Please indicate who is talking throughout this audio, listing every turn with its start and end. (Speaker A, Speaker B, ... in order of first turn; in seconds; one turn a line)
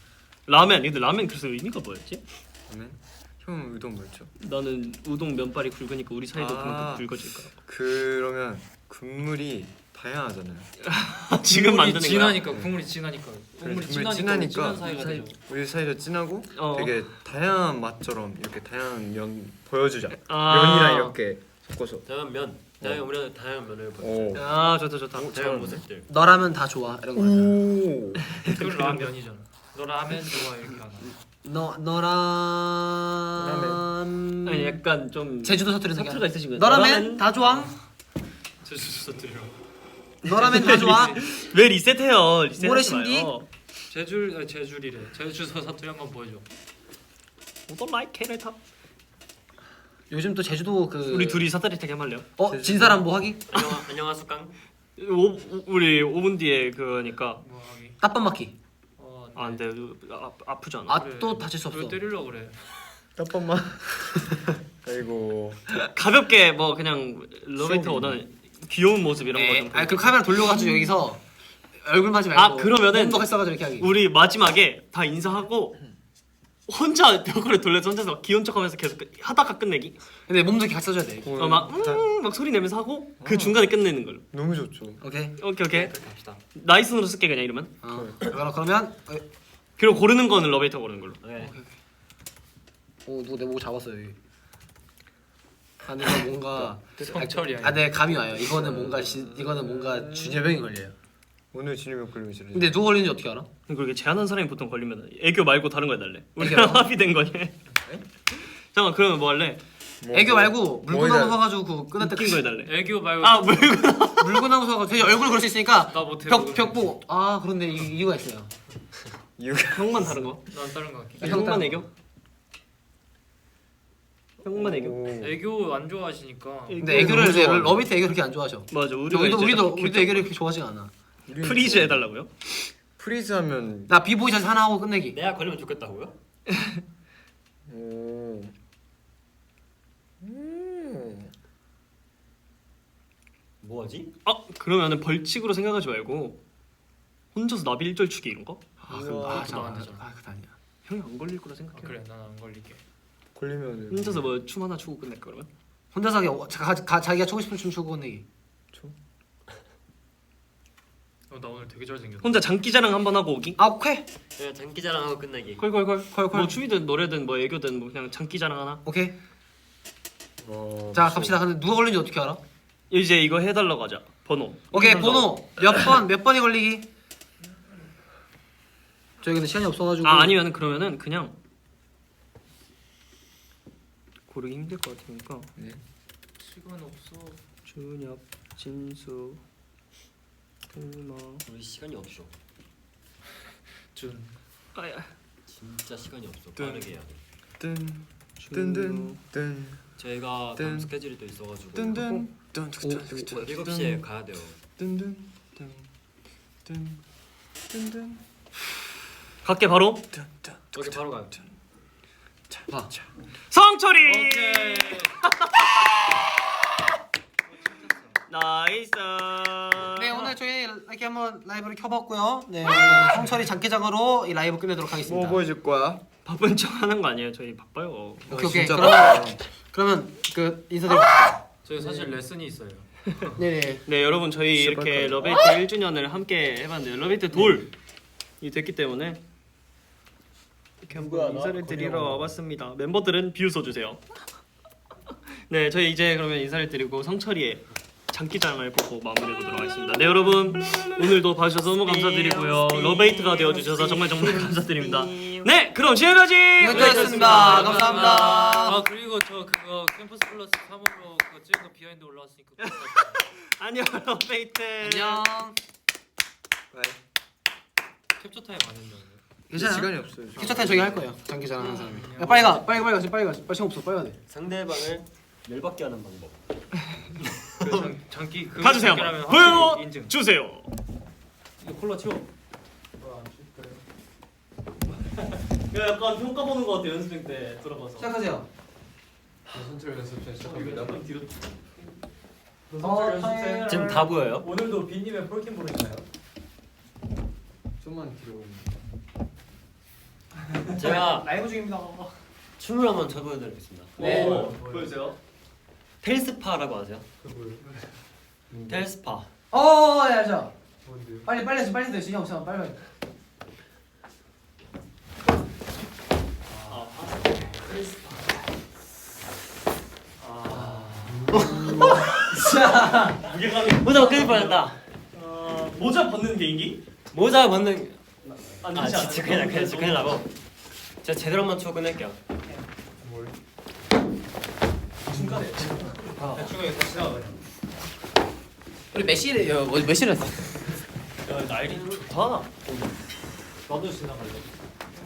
Speaker A: 0.5-2.2
Speaker B: 2.7-4.3
Speaker A: 4.4-7.5
Speaker B: 6.3-7.1
Speaker B: 7.6-10.7
Speaker A: 10.9-12.4
Speaker C: 11.5-15.4
Speaker B: 13.6-22.1
Speaker A: 14.8-15.3
Speaker A: 16.5-17.0
Speaker A: 20.3-21.2
Speaker D: 22.1-24.5
Speaker B: 24.0-24.4
Speaker A: 24.4-25.8
Speaker D: 25.2-26.1
Speaker E: 26.1-27.6
Speaker B: 27.1-28.4
Speaker A: 28.4-29.1
Speaker C: 28.5-31.1
Speaker E: 31.4-34.8
Speaker B: 33.4-33.9
Speaker A: 34.5-37.3
Speaker E: 35.4-37.8
Speaker C: 38.6-39.6
Speaker E: 40.2-41.2
Speaker A: 40.3-43.5
Speaker C: 40.3-41.3
Speaker E: 42.6-43.3
Speaker C: 43.9-46.5
Speaker A: 47.7-48.6
Speaker E: 50.1-51.5
Speaker A: 51.1-52.3
Speaker E: 52.4-53.4
Speaker B: 52.5-53.1
Speaker D: 53.5-54.6
Speaker A: 55.0-57.4
Speaker C: 57.4-58.0
Speaker E: 58.0-58.5
Speaker C: 59.0-59.6
Speaker A: 59.4-61.0
Speaker E: 60.9-62.0
Speaker C: 60.9-62.6
Speaker B: 63.2-65.7
Speaker A: 65.9-70.9
Speaker B: 67.6-68.2
Speaker E: 69.3-71.2
Speaker E: 71.8-73.9
Speaker A: 72.3-75.8
Speaker A: 76.7-80.0
Speaker E: 80.3-81.3
Speaker B: 81.2-82.1
Speaker A: 81.4-84.2
Speaker B: 83.2-83.7
Speaker B: 84.3-85.0
Speaker E: 85.0-85.4
Speaker A: 85.4-85.9
Speaker C: 85.7-86.4
Speaker A: 86.5-87.7
Speaker E: 87.8-89.2
Speaker B: 87.9-88.2
Speaker A: 89.8-91.2
Speaker D: 91.2-91.5
Speaker E: 91.4-91.7
Speaker E: 93.1-94.2
Speaker E: 95.8-100.9
Speaker B: 96.5-97.3
Speaker C: 97.0-98.0
Speaker B: 98.3-100.5
Speaker B: 101.5-102.8
Speaker E: 102.5-103.5
Speaker A: 103.7-107.6
Speaker E: 106.4-106.9
Speaker A: 108.4-109.6
Speaker B: 110.0-111.4
Speaker E: 110.1-112.4
Speaker A: 112.0-114.5
Speaker C: 112.7-113.9
Speaker E: 114.2-118.5
Speaker C: 115.9-117.0
Speaker B: 119.4-120.2
Speaker A: 119.7-120.4
Speaker C: 120.5-121.6
Speaker B: 121.2-121.8
Speaker A: 121.2-121.9
Speaker E: 121.2-121.8
Speaker A: 124.4-125.0
Speaker B: 124.6-125.4
Speaker C: 125.1-127.2
Speaker A: 126.7-127.9
Speaker E: 126.8-130.9
Speaker B: 126.9-127.7
Speaker A: 128.7-130.3
Speaker B: 131.3-132.0
Speaker A: 131.4-132.3
Speaker B: 133.0-133.9
Speaker E: 133.9-135.2
Speaker D: 135.1-136.2
Speaker B: 137.7-138.5
Speaker B: 140.2-141.3
Speaker D: 143.6-144.1
Speaker A: 144.2-146.4
Speaker A: 147.3-148.6
Speaker B: 148.8-149.8
Speaker E: 148.9-150.5
Speaker C: 149.2-150.0
Speaker A: 150.9-151.9
Speaker C: 151.7-152.8
Speaker B: 153.3-154.3
Speaker A: 153.9-155.5
Speaker E: 155.9-158.2
Speaker C: 161.3-162.5
Speaker A: 162.2-163.6
Speaker E: 163.6-164.1
Speaker D: 164.4-165.7
Speaker A: 165.6-168.8
Speaker E: 166.1-166.6
Speaker E: 168.8-169.1
Speaker B: 170.4-171.4
Speaker E: 170.9-172.4
Speaker A: 172.9-176.0
Speaker E: 174.7-176.8
Speaker E: 179.2-180.3
Speaker A: 180.0-181.3
Speaker A: 184.3-185.5
Speaker C: 186.4-187.4
Speaker A: 187.7-189.4
Speaker A: 190.7-191.4
Speaker D: 191.5-192.3
Speaker C: 193.9-194.3
Speaker A: 194.8-195.1
Speaker D: 195.5-197.2
Speaker B: 196.6-197.0
Speaker B: 197.6-199.9
Speaker A: 198.4-199.2
Speaker D: 200.0-202.1
Speaker B: 200.6-200.9
Speaker B: 201.7-204.1
Speaker E: 202.8-203.4
Speaker D: 203.4-204.6
Speaker B: 204.8-205.9
Speaker B: 206.7-207.0
Speaker B: 207.7-208.2
Speaker A: 209.4-210.1
Speaker B: 210.1-211.4
Speaker D: 210.8-211.3
Speaker B: 212.5-213.1
Speaker A: 213.5-216.3
Speaker C: 214.0-215.2
Speaker C: 217.5-218.2
Speaker A: 218.3-220.3
Speaker E: 219.9-225.4
Speaker A: 222.8-223.1
Speaker B: 225.0-226.0
Speaker A: 226.2-228.9
Speaker B: 228.3-229.4
Speaker E: 228.3-231.4
Speaker C: 231.6-233.4
Speaker E: 233.3-233.8
Speaker A: 233.9-237.7
Speaker B: 234.6-235.5
Speaker A: 238.4-239.2
Speaker A: 240.9-244.0
Speaker E: 241.1-242.2
Speaker A: 245.5-258.8
Speaker D: 251.8-255.5
Speaker E: 256.6-258.8
Speaker C: 256.6-263.2
Speaker D: 256.9-257.4
Speaker A: 262.6-265.3
Speaker E: 264.8-265.6
Speaker B: 266.7-267.0
Speaker C: 268.2-269.2
Speaker E: 269.5-274.2
Speaker B: 269.5-271.1
Speaker C: 271.6-272.7
Speaker D: 274.3-276.4
Speaker D: 277.2-277.9
Speaker C: 277.6-280.1
Speaker A: 278.6-280.7
Speaker C: 281.6-282.3
Speaker C: 283.0-283.8
Speaker A: 285.7-288.1
Speaker E: 288.0-288.5
Speaker B: 289.5-291.0
Speaker A: 290.4-291.3
Speaker C: 290.5-290.9
Speaker C: 292.7-296.1
Speaker E: 292.8-294.1
Speaker D: 293.7-294.5
Speaker B: 297.8-298.7
Speaker C: 300.7-301.9
Speaker D: 300.8-301.3
Speaker A: 300.9-301.2
Speaker D: 302.6-304.0
Speaker A: 304.0-305.2
Speaker E: 304.0-304.5
Speaker C: 304.0-305.0
Speaker D: 306.0-307.1
Speaker C: 307.2-307.8
Speaker B: 308.5-308.9
Speaker D: 308.7-309.3
Speaker E: 309.5-310.5
Speaker C: 310.9-311.3
Speaker E: 311.2-312.8
Speaker C: 316.5-317.9
Speaker A: 316.7-317.2
Speaker A: 320.2-320.9
Speaker C: 320.3-321.3
Speaker E: 320.5-323.1
Speaker D: 321.3-321.6
Speaker A: 321.7-322.2
Speaker A: 323.1-324.6
Speaker D: 323.8-324.8
Speaker A: 325.1-326.8
Speaker D: 327.1-330.3
Speaker A: 328.6-330.1
Speaker D: 331.0-332.2
Speaker C: 333.0-333.3
Speaker A: 335.1-336.3
Speaker C: 335.1-337.4
Speaker E: 338.9-340.7
Speaker A: 341.3-342.5
Speaker D: 341.6-342.1
Speaker C: 343.7-344.5